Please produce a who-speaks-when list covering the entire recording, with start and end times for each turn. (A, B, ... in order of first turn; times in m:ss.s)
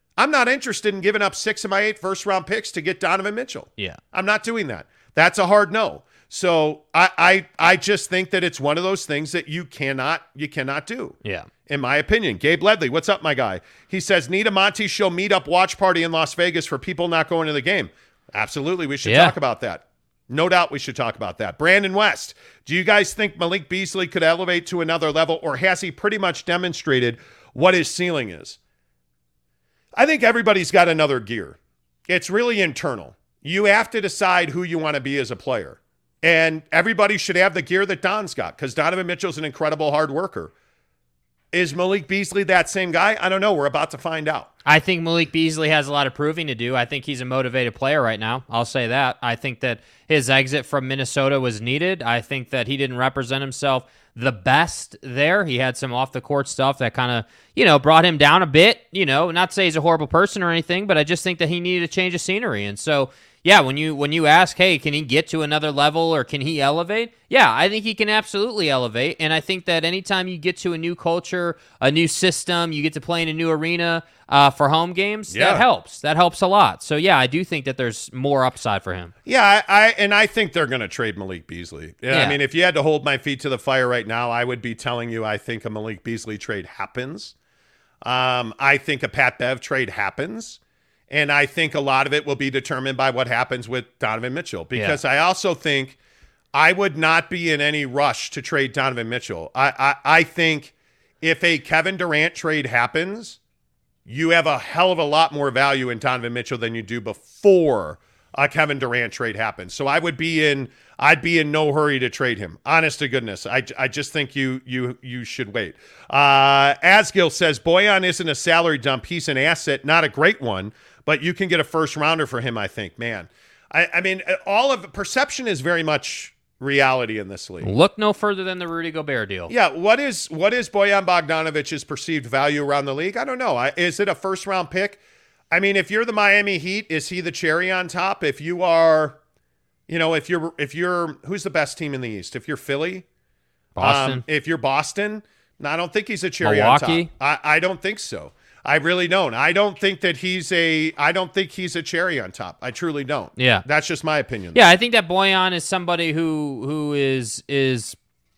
0:00.2-0:28.6 A
0:19.0-0:19.3 B
0:30.0-0:31.6 A
0:32.1-0:40.5 A
0:41.5-0:44.5 A
0:44.6-1:19.1 B
1:15.3-1:15.6 A
1:19.2-1:27.3 A
1:22.1-1:22.4 B
1:28.0-1:30.6 A
1:31.1-1:36.0 A
1:36.5-1:43.4 A
1:44.0-2:07.7 A
2:07.6-2:09.5 B
2:09.5-2:15.0 A
2:15.5-2:19.2 A
2:19.9-2:23.0 A
2:23.8-2:24.2 B
2:23.8-2:34.6 A
2:26.4-2:27.1 B
2:33.4-2:33.6 B
2:34.5-2:38.0 B